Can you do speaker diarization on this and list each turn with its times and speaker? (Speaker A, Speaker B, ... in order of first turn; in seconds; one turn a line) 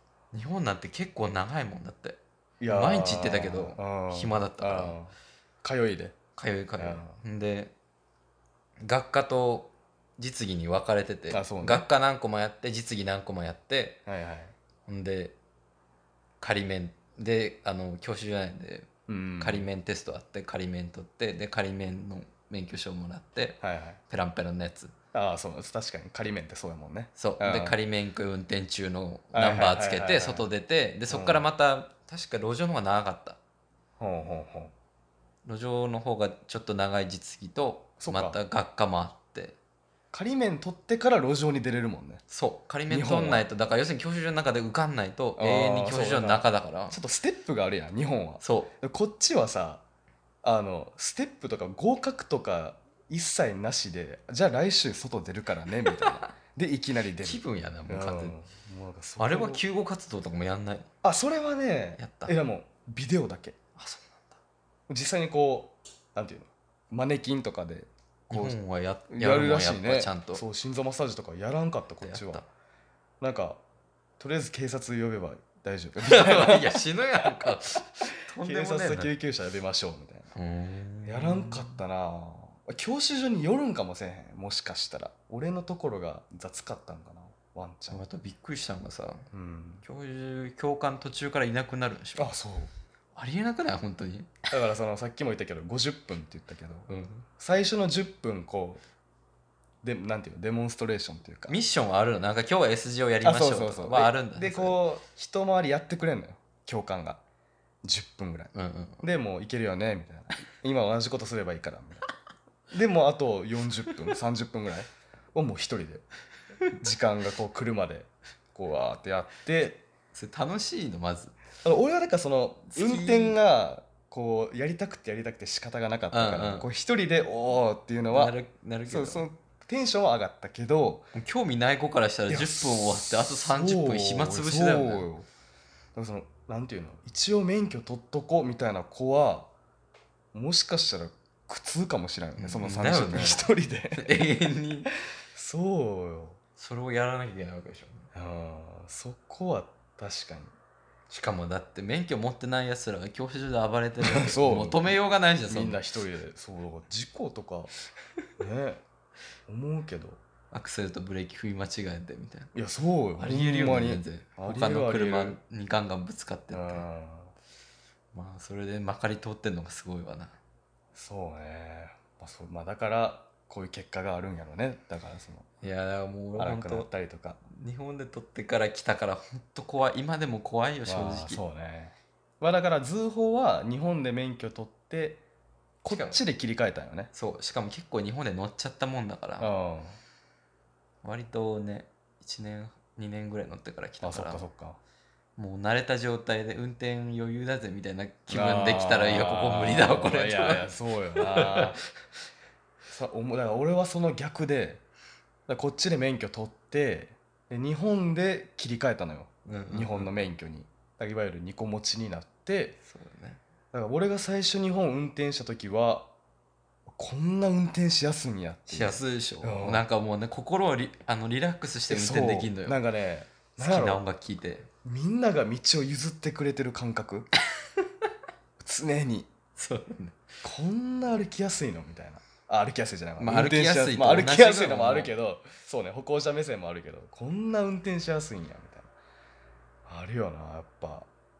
Speaker A: 0.3-5.0
Speaker B: 2.6-6.2
Speaker A: 6.4-7.7
Speaker B: 6.8-7.2
Speaker A: 8.8-14.0
Speaker B: 11.3-11.8
Speaker B: 14.1-14.5
Speaker A: 14.9-15.3
Speaker A: 16.4-24.9
Speaker B: 19.1-19.7
Speaker B: 23.6-24.0
Speaker B: 25.1-27.8
Speaker A: 27.2-33.4
Speaker B: 29.3-30.5
Speaker B: 31.1-31.4
Speaker B: 34.0-34.7
Speaker A: 35.5-39.6
Speaker B: 38.0-38.4
Speaker B: 40.1-42.2
Speaker A: 42.3-47.0
Speaker B: 42.9-43.5
Speaker B: 45.4-49.8
Speaker A: 48.4-48.7
Speaker B: 50.4-59.6
Speaker A: 57.2-58.4
Speaker A: 59.2-60.9
Speaker B: 61.0-63.6
Speaker A: 62.0-62.4
Speaker A: 63.8-64.4
Speaker B: 64.9-68.6
Speaker A: 68.3-70.4
Speaker B: 69.1-72.5
Speaker A: 72.0-72.4
Speaker B: 73.2-73.6
Speaker B: 74.2-76.8
Speaker A: 76.0-79.1
Speaker B: 78.4-80.3
Speaker A: 80.3-81.8
Speaker B: 81.1-88.0
Speaker A: 87.9-89.3
Speaker B: 89.3-89.8
Speaker A: 89.8-92.3
Speaker B: 92.2-92.7
Speaker A: 93.2-94.5
Speaker B: 94.5-98.8
Speaker A: 96.9-97.3
Speaker B: 99.8-101.6
Speaker A: 101.5-104.8
Speaker B: 103.2-107.2
Speaker B: 107.8-112.0
Speaker A: 108.5-109.0
Speaker B: 112.7-116.1
Speaker B: 116.7-119.8
Speaker A: 120.1-121.3
Speaker B: 121.6-128.3
Speaker A: 122.7-123.4
Speaker A: 126.1-126.7
Speaker A: 128.1-129.3
Speaker B: 128.9-131.1
Speaker A: 131.1-135.1
Speaker B: 132.3-135.3
Speaker B: 135.9-139.5
Speaker B: 140.3-144.2
Speaker A: 142.4-144.9
Speaker B: 145.3-146.4
Speaker A: 146.6-148.1
Speaker B: 148.1-150.5
Speaker A: 151.1-155.8
Speaker B: 154.0-155.0
Speaker B: 155.5-157.7
Speaker B: 158.4-158.8
Speaker B: 159.5-160.2
Speaker A: 160.5-162.5
Speaker B: 162.5-165.4
Speaker A: 163.2-166.9
Speaker B: 166.5-167.3
Speaker A: 168.1-170.4
Speaker B: 170.9-175.5
Speaker A: 175.6-176.9
Speaker B: 176.4-177.4
Speaker A: 177.5-181.4
Speaker B: 180.9-185.2
Speaker B: 185.8-187.1
Speaker A: 185.9-186.2
Speaker A: 187.1-189.5
Speaker B: 189.4-190.0
Speaker A: 191.0-194.5
Speaker B: 194.0-194.8
Speaker A: 195.4-201.8
Speaker B: 198.3-201.8
Speaker B: 202.9-204.8
Speaker B: 205.5-212.8
Speaker A: 209.4-210.1
Speaker A: 212.8-213.4
Speaker B: 213.7-216.1
Speaker B: 216.9-219.8
Speaker A: 218.7-222.8
Speaker B: 221.9-224.0
Speaker A: 223.6-224.7
Speaker B: 224.8-227.3
Speaker B: 228.6-229.3
Speaker A: 229.6-230.2
Speaker B: 230.4-238.9
Speaker A: 233.2-235.1
Speaker B: 239.9-241.1